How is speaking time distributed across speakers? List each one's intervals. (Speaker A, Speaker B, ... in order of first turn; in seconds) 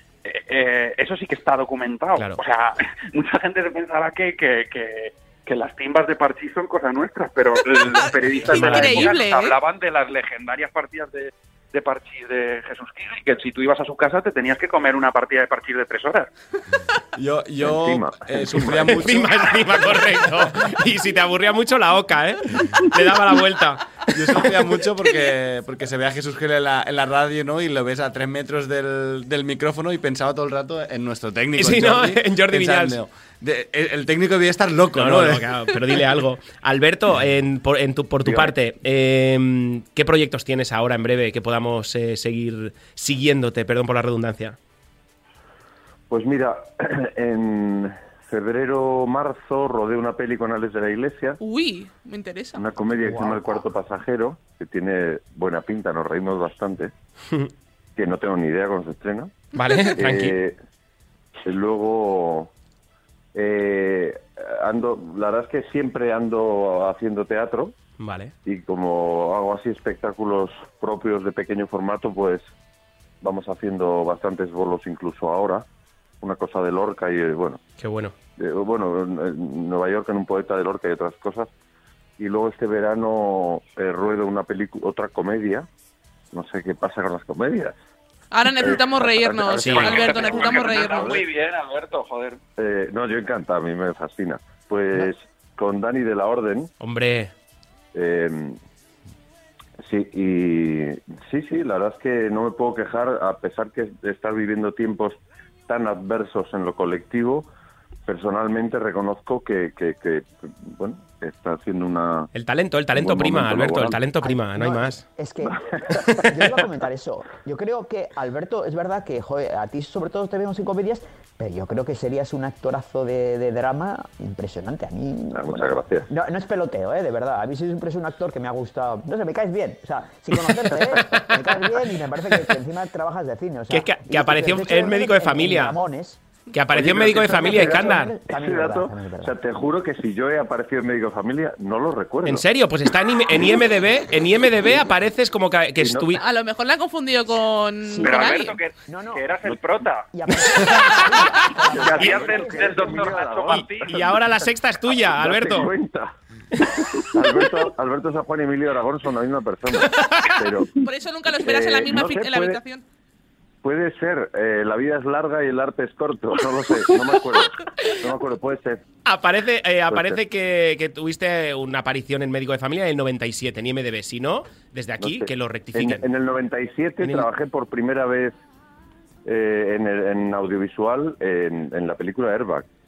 Speaker A: 0.2-16.3, 89.7-92.4, 147.9-150.1, 151.4-154.1
Speaker B: 2.2-2.4, 8.5-9.2, 18.8-24.0, 31.6-33.0, 34.9-44.5, 59.5-60.4, 68.0-68.3, 77.8-78.1, 89.6-90.0, 96.8-97.3, 112.3-115.0, 131.0-131.4, 133.7-135.8, 136.5-138.1, 142.2-146.2, 153.5-155.7, 169.1-176.1, 177.0-177.3
Speaker C: 7.8-9.6, 51.4-52.6, 59.6-59.9, 88.3-91.2, 146.2-148.6, 160.7-162.8
Speaker D: 17.2-20.1, 24.1-35.5
Speaker E: 17.6-18.9, 38.2-38.5, 46.1-51.4, 52.5-56.9, 58.0-59.4, 60.0-60.5, 61.4-62.5, 63.4-67.8, 68.5-72.5, 73.2-75.7, 76.2-77.6, 78.4-81.5, 82.2-85.7, 86.3-87.8, 88.6-91.1, 92.6-96.7, 97.9-98.6, 99.8-107.5, 108.0-112.3, 112.9-114.0, 125.3-126.1, 136.7-142.4, 145.8-146.1, 151.6-153.7, 155.1-156.1, 156.8-160.7, 161.3-162.6, 163.6-168.8, 169.9-170.2, 175.0-178.4, 179.2-182.7
Speaker F: 53.0-53.7, 114.2-136.2, 137.1-139.3, 147.9-148.2, 148.9-149.2, 150.1-153.3